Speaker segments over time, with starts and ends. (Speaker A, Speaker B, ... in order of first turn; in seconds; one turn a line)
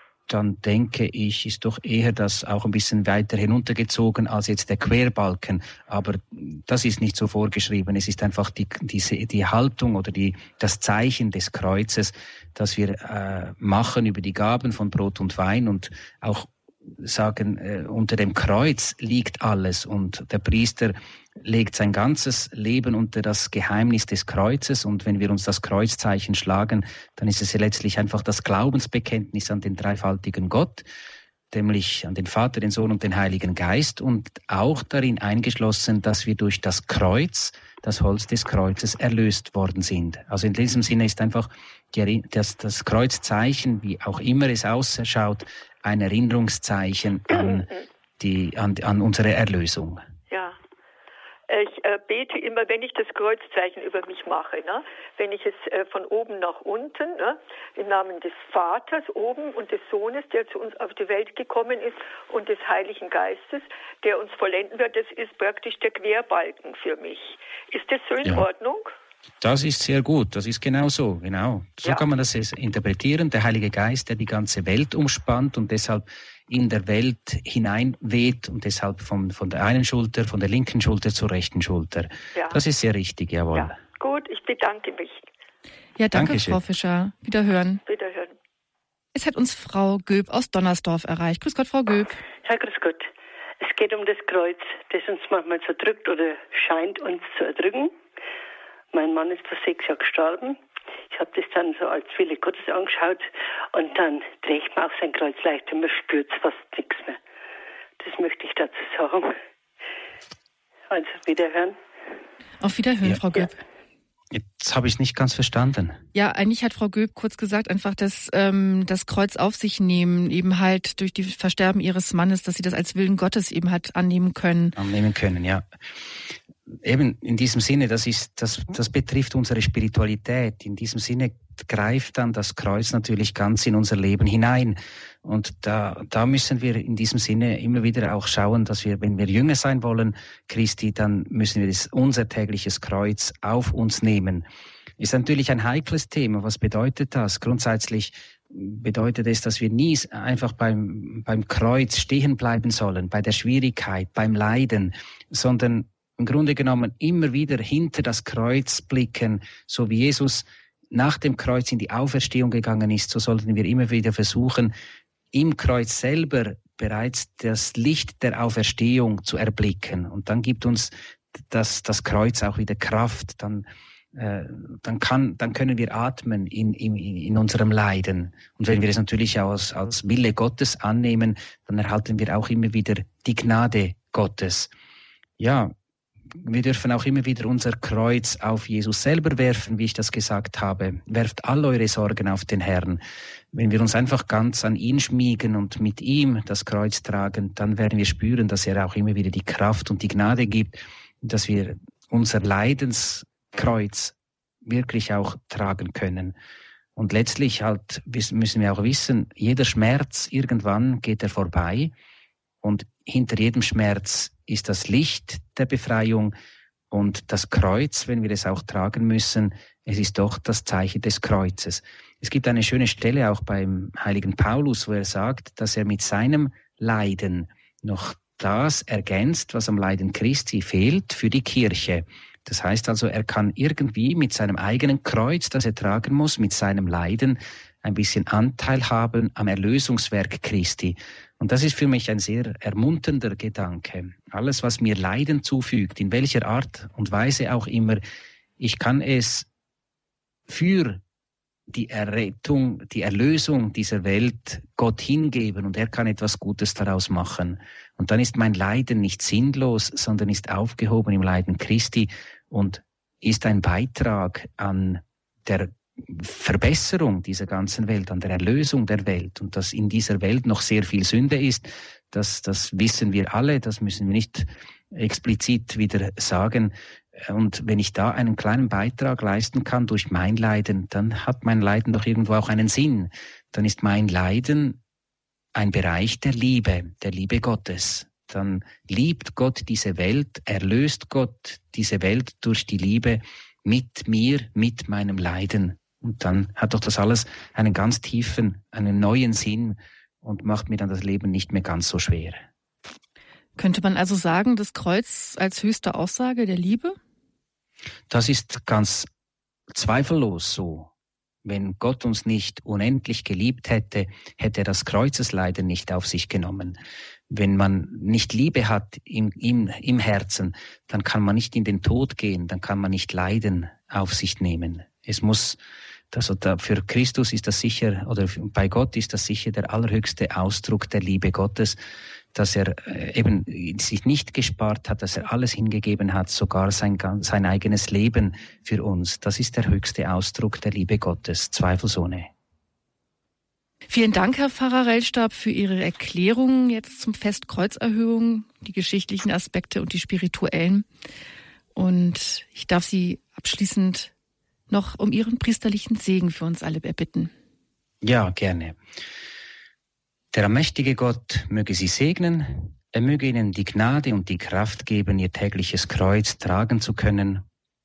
Speaker A: 0.3-30.9
Speaker A: 31.5-50.0
Speaker B: 47.3-47.8
Speaker B: 50.3-50.6
Speaker B: 51.5-68.9
Speaker A: 69.4-83.8
Speaker B: 82.3-82.6
Speaker B: 83.5-85.2
Speaker C: 86.0-87.8
Speaker A: 86.1-86.6
Speaker B: 87.8-88.3
Speaker C: 89.1-92.2
Speaker D: 92.4-97.9
Speaker D: 98.9-100.6
Speaker D: 101.1-107.2
Speaker D: 108.0-109.3
Speaker D: 110.9-111.8
Speaker C: 112.6-113.6
Speaker A: 114.3-116.0
Speaker C: 116.1-124.8
Speaker A: 124.8-125.7
Speaker A: 126.8-144.4
Speaker A: 145.0-164.7
Speaker A: 165.3-170.9
Speaker A: 171.5-184.7
Speaker A: 185.4-185.7
Speaker A: 186.3-193.0
Speaker A: 193.5-206.3
Speaker A: 206.9-211.9
Speaker A: 212.6-216.3
Speaker A: 216.9-248.0
Speaker A: 248.6-249.5
Speaker A: 250.5-251.0
Speaker A: 251.7-284.8
Speaker A: 285.5-302.5
Speaker C: 303.6-307.0
Speaker A: 308.1-309.1
Speaker A: 309.7-310.9
Speaker A: 311.4-316.8
Speaker A: 317.3-325.6
Speaker A: 326.1-331.8
Speaker A: 332.3-342.3
Speaker C: 343.9-350.9
Speaker C: 351.7-354.1
Speaker C: 354.7-357.3
Speaker A: 358.0-358.8
Speaker A: 360.3-367.4